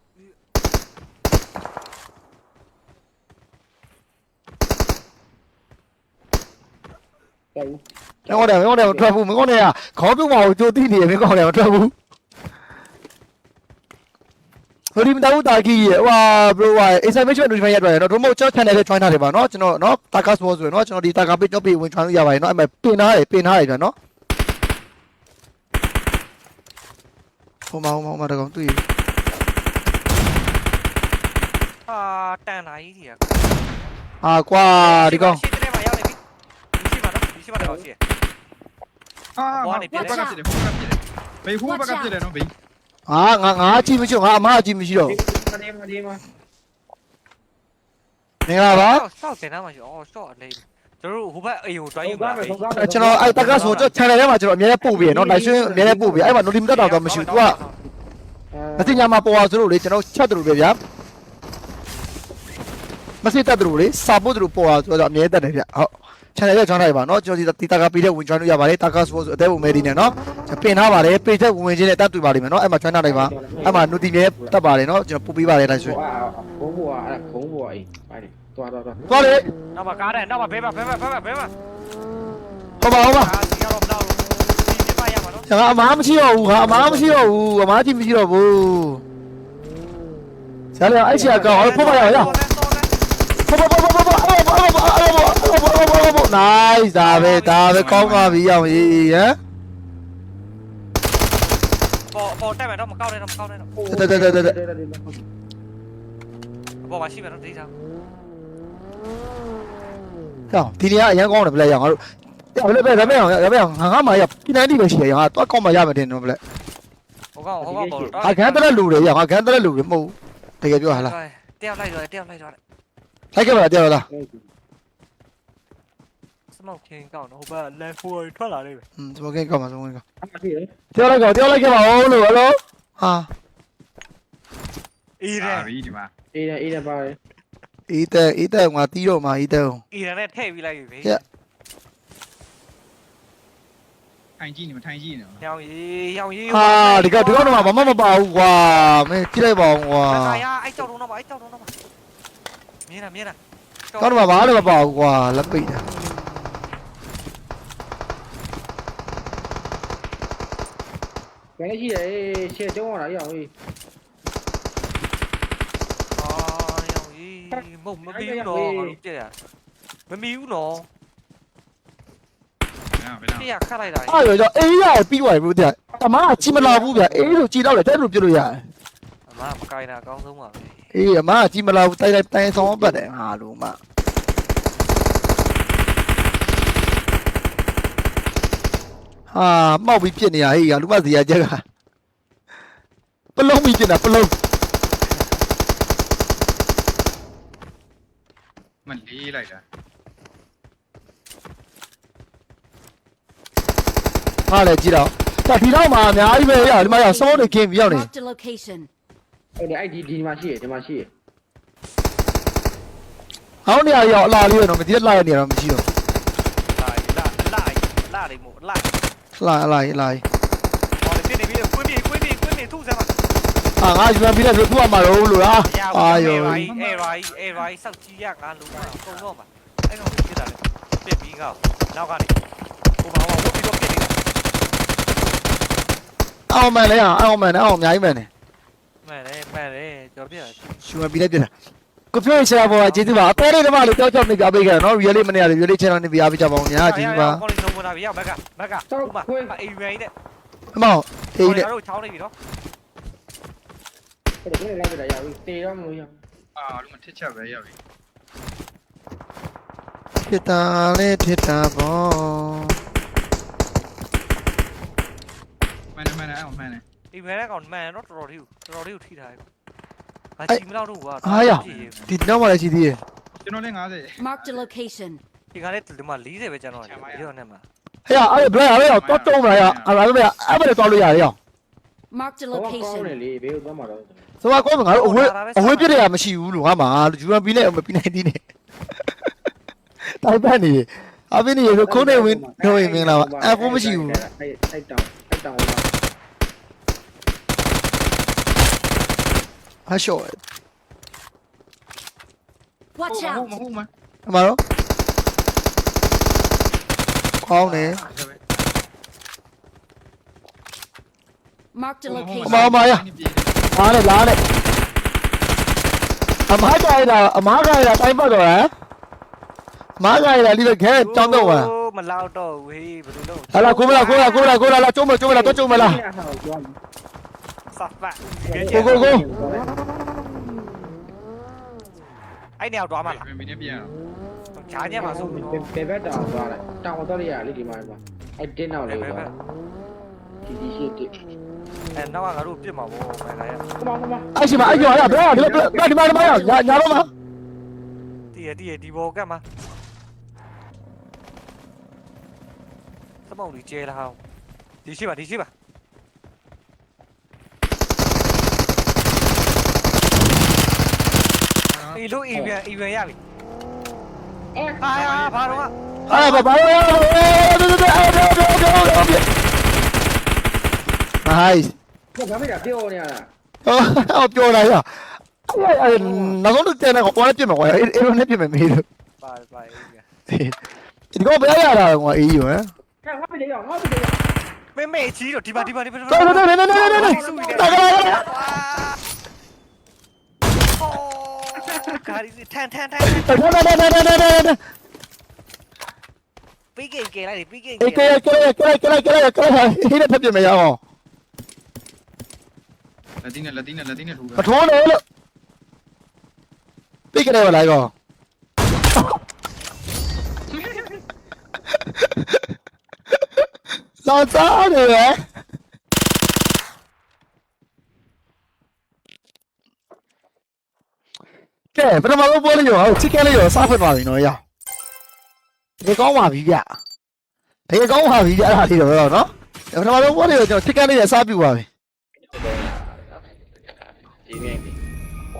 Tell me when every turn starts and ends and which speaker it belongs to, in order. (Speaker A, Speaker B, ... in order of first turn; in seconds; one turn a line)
Speaker A: 7.5-9.1
Speaker B: 8.3-11.9
Speaker B: 14.9-23.9
Speaker B: 27.7-28.8
Speaker C: 31.9-33.7
Speaker B: 34.2-35.4
Speaker C: 34.8-36.2
Speaker C: 36.8-38.0
Speaker A: 37.6-37.9
Speaker D: 39.4-42.5
Speaker C: 39.5-40.4
Speaker E: 39.9-40.4
Speaker E: 41.6-42.1
Speaker B: 43.1-45.2
Speaker A: 45.0-46.2
Speaker B: 48.5-49.0
Speaker C: 48.7-52.6
Speaker A: 52.0-53.9
Speaker B: 52.7-57.6
Speaker C: 53.3-53.9
Speaker A: 54.8-56.4
Speaker C: 56.6-57.8
Speaker A: 58.5-59.1
Speaker B: 58.8-60.8
Speaker B: 63.2-76.0
Speaker A: 73.0-74.6
Speaker A: 75.7-79.1
Speaker B: 79.1-79.5
Speaker C: 79.7-81.5
Speaker B: 82.8-83.3
Speaker C: 82.8-85.5
Speaker B: 85.5-89.0
Speaker A: 86.5-87.3
Speaker B: 90.8-92.3
Speaker A: 91.0-92.4
Speaker C: 91.3-92.9
Speaker B: 93.5-99.4
Speaker C: 97.0-98.3
Speaker D: 97.7-98.4
Speaker C: 102.1-103.7
Speaker A: 103.8-105.2
Speaker B: 103.9-104.5
Speaker C: 106.8-107.7
Speaker B: 110.5-112.0
Speaker B: 112.5-116.4
Speaker C: 117.3-118.7
Speaker A: 117.6-118.2
Speaker B: 118.2-121.1
Speaker C: 120.9-122.6
Speaker B: 123.3-124.0
Speaker A: 124.1-124.5
Speaker C: 126.5-128.8
Speaker B: 129.0-130.0
Speaker A: 130.2-130.7
Speaker B: 130.9-133.3
Speaker C: 135.2-135.7
Speaker D: 135.4-136.1
Speaker A: 136.3-137.2
Speaker B: 137.9-139.8
Speaker C: 139.9-141.2
Speaker D: 144.4-145.4
Speaker C: 145.4-148.0
Speaker B: 146.5-150.4
Speaker C: 150.1-151.7
Speaker C: 152.9-153.4
Speaker C: 153.9-154.8
Speaker B: 154.0-155.8
Speaker A: 161.6-163.5
Speaker C: 166.2-169.3
Speaker A: 167.5-168.9
Speaker C: 170.1-170.8
Speaker D: 173.0-173.5
Speaker C: 173.3-174.4
Speaker B: 174.1-178.6
Speaker A: 176.4-177.4
Speaker C: 179.3-180.8
Speaker B: 180.9-183.8
Speaker A: 182.6-183.0
Speaker B: 189.3-191.6
Speaker B: 193.3-194.3
Speaker D: 198.8-199.6
Speaker B: 204.5-208.1
Speaker E: 206.3-208.9
Speaker A: 209.6-211.1
Speaker B: 213.6-215.8
Speaker C: 216.7-218.9
Speaker B: 219.4-220.2
Speaker C: 221.0-223.1
Speaker B: 223.8-226.7
Speaker C: 225.6-232.3
Speaker D: 226.2-227.7
Speaker D: 228.7-229.3
Speaker C: 233.0-234.1
Speaker B: 236.5-238.3
Speaker C: 239.0-240.8
Speaker B: 240.8-241.5
Speaker B: 242.1-247.4
Speaker C: 242.6-243.1
Speaker C: 246.8-250.1
Speaker A: 248.9-249.5
Speaker B: 250.7-251.7
Speaker C: 251.4-252.3
Speaker A: 254.4-256.2
Speaker D: 256.6-257.8
Speaker B: 260.2-262.8
Speaker D: 265.9-266.8
Speaker C: 267.1-269.4
Speaker C: 270.4-272.0
Speaker B: 271.2-273.0
Speaker D: 271.3-272.1
Speaker D: 273.4-274.7
Speaker E: 274.2-275.2
Speaker C: 275.5-277.6
Speaker D: 276.8-277.3
Speaker B: 278.1-281.4
Speaker D: 278.7-279.9
Speaker E: 282.1-283.1
Speaker A: 282.5-284.2
Speaker B: 284.4-288.4
Speaker C: 284.9-286.1
Speaker B: 290.2-294.2
Speaker A: 291.7-295.9
Speaker B: 299.9-300.4
Speaker E: 302.9-303.5
Speaker D: 303.1-303.9
Speaker B: 304.2-304.6
Speaker B: 307.4-308.0
Speaker D: 307.6-308.5
Speaker E: 311.7-312.7
Speaker D: 312.1-313.7
Speaker B: 312.4-313.1
Speaker B: 313.7-314.4
Speaker B: 316.5-318.7
Speaker B: 320.0-321.7
Speaker C: 320.9-324.5
Speaker B: 323.5-326.0
Speaker E: 323.9-324.6
Speaker A: 325.3-326.8
Speaker C: 327.7-329.1
Speaker A: 328.4-329.7
Speaker B: 328.7-329.2
Speaker C: 332.6-333.3
Speaker D: 333.0-333.9
Speaker C: 334.5-335.7
Speaker A: 335.0-339.3
Speaker C: 338.9-339.3
Speaker A: 340.4-341.1
Speaker C: 341.9-343.6
Speaker A: 343.8-347.0
Speaker B: 344.4-347.1
Speaker C: 348.3-349.4
Speaker C: 353.3-354.2
Speaker C: 354.8-355.5
Speaker D: 361.7-362.0
Speaker C: 361.9-363.2
Speaker A: 364.5-364.8
Speaker C: 364.8-366.4
Speaker D: 364.9-365.7
Speaker B: 366.1-369.2
Speaker B: 371.2-371.7
Speaker A: 372.1-373.3
Speaker B: 373.6-378.8
Speaker A: 375.9-376.4
Speaker C: 379.2-380.0
Speaker B: 380.3-380.6
Speaker B: 381.1-382.7
Speaker A: 383.0-384.2
Speaker C: 384.7-389.0
Speaker B: 386.1-388.3
Speaker A: 386.7-388.3
Speaker C: 390.6-393.5
Speaker A: 391.7-392.0
Speaker B: 393.1-394.6
Speaker C: 396.7-398.2
Speaker B: 397.8-400.8
Speaker D: 403.2-404.5
Speaker B: 404.4-405.0
Speaker B: 407.1-407.9
Speaker B: 412.0-412.4
Speaker B: 414.0-415.2
Speaker B: 421.7-424.4
Speaker B: 425.8-426.7
Speaker B: 427.7-431.6
Speaker A: 432.3-433.1
Speaker A: 434.2-434.8